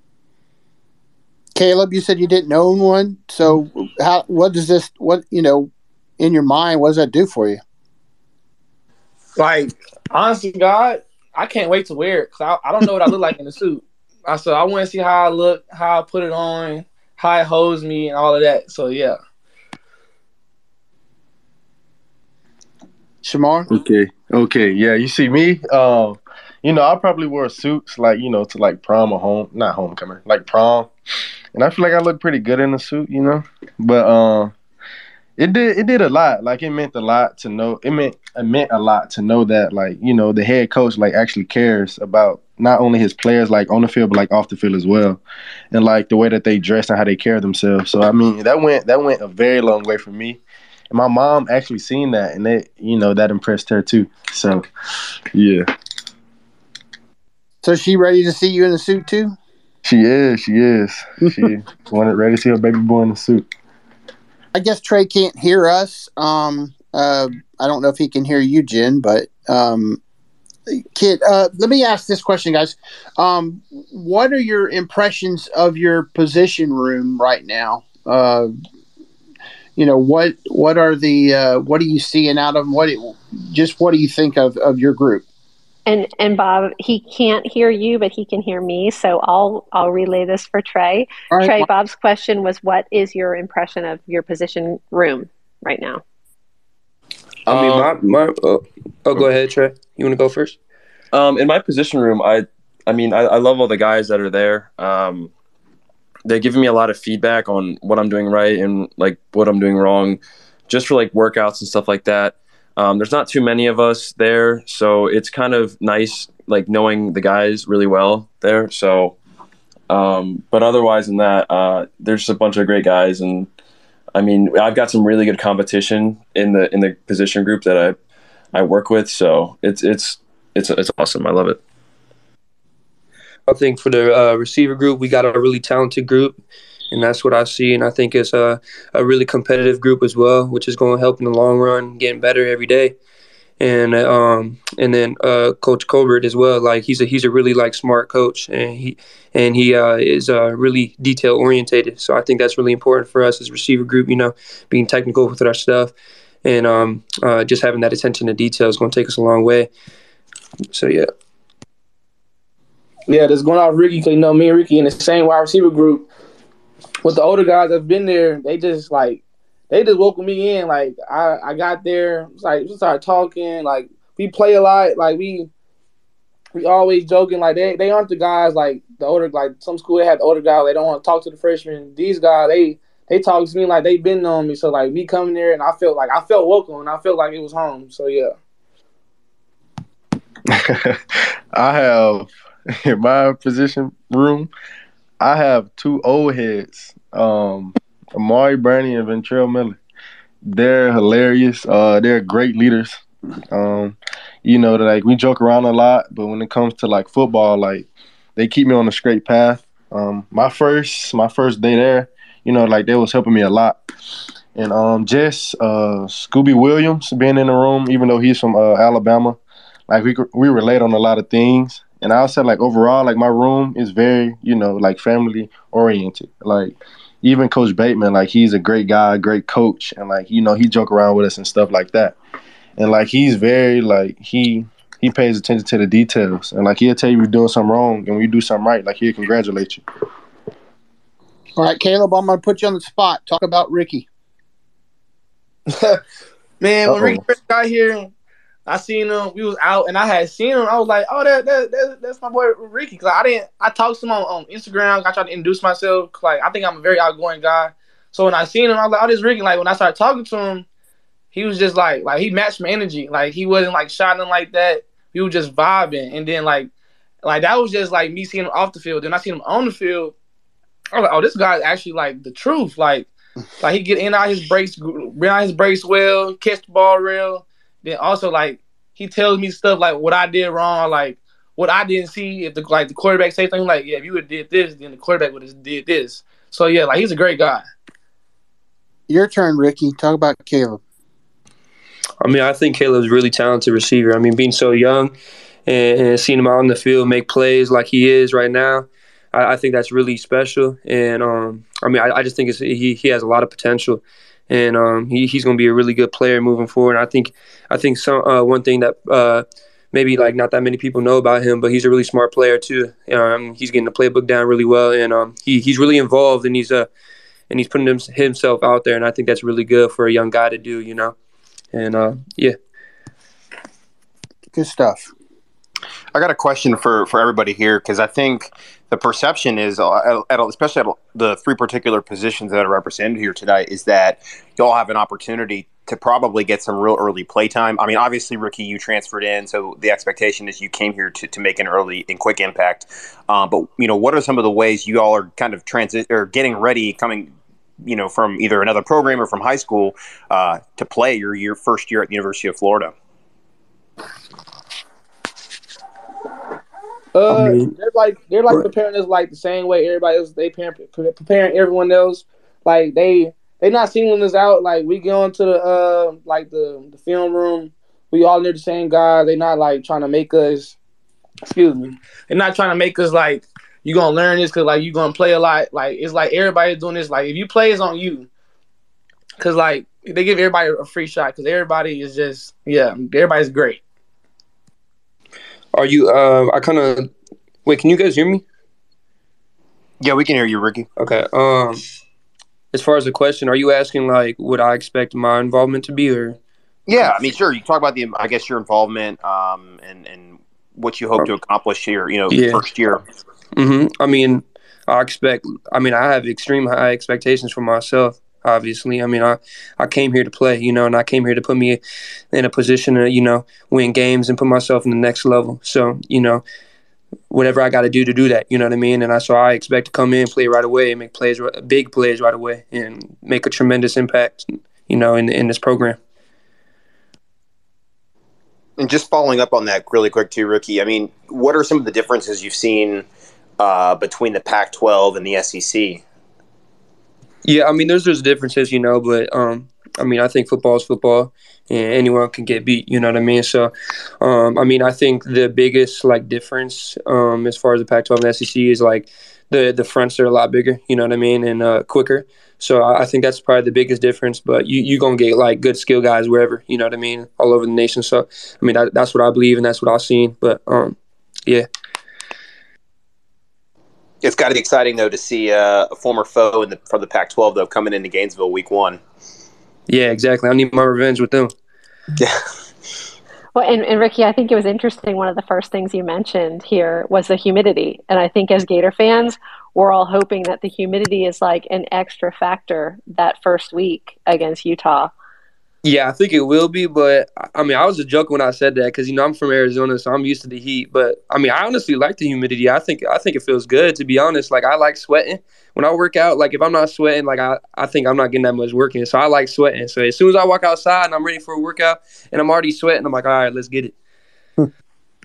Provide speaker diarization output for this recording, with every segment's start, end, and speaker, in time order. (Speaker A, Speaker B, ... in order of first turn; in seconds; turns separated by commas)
Speaker A: 1.6-5.7, Speaker A: 6.2-7.6, Speaker B: 9.4-19.2, Speaker A: 23.2-23.7, Speaker C: 23.7-30.9, Speaker C: 31.5-34.5, Speaker C: 35.4-50.4, Speaker C: 50.9-54.7, Speaker C: 55.3-55.7, Speaker A: 57.6-59.4, Speaker C: 59.9-63.5, Speaker A: 64.5-70.0, Speaker A: 70.9-78.5, Speaker A: 79.8-85.2, Speaker D: 85.9-96.0, Speaker A: 91.3-91.6, Speaker E: 97.5-97.9, Speaker F: 97.5-100.6, Speaker E: 101.1-105.3, Speaker E: 106.2-119.2, Speaker E: 119.9-123.5, Speaker E: 124.1-128.0, Speaker E: 128.5-131.6, Speaker F: 133.5-136.4, Speaker F: 136.9-143.0, Speaker F: 143.6-155.9, Speaker F: 156.4-159.7, Speaker F: 160.7-161.1, Speaker B: 163.1-166.1, Speaker B: 167.0-175.5, Speaker B: 176.6-188.3, Speaker C: 190.5-192.3, Speaker C: 192.8-194.5, Speaker C: 195.2-199.8, Speaker C: 200.4-213.8, Speaker C: 214.6-219.4, Speaker C: 219.9-232.2, Speaker C: 232.8-239.8, Speaker A: 241.6-244.0, Speaker B: 246.6-248.1, Speaker C: 246.9-247.2, Speaker B: 248.7-260.6, Speaker B: 261.3-266.7, Speaker B: 267.2-270.1, Speaker B: 270.9-273.1, Speaker B: 273.6-287.6, Speaker A: 289.1-290.8, Speaker F: 292.2-295.1, Speaker F: 295.7-316.9, Speaker F: 317.5-321.1, Speaker F: 321.7-322.6, Speaker A: 324.6-325.1, Speaker G: 326.1-347.3, Speaker G: 347.8-352.9, Speaker B: 357.1-370.8, Speaker F: 357.3-357.7, Speaker B: 371.5-378.3, Speaker B: 379.4-383.8, Speaker F: 385.7-387.1, Speaker F: 387.6-388.4, Speaker G: 390.0-390.9, Speaker F: 391.0-391.8, Speaker F: 392.7-396.4, Speaker G: 396.9-403.0, Speaker F: 402.3-402.6, Speaker F: 403.6-411.8, Speaker F: 412.3-416.4, Speaker F: 417.3-426.0, Speaker G: 428.8-433.1, Speaker G: 433.6-436.0, Speaker F: 437.4-461.7, Speaker G: 464.2-469.0, Speaker F: 469.9-471.5, Speaker D: 473.6-485.1, Speaker F: 485.8-503.9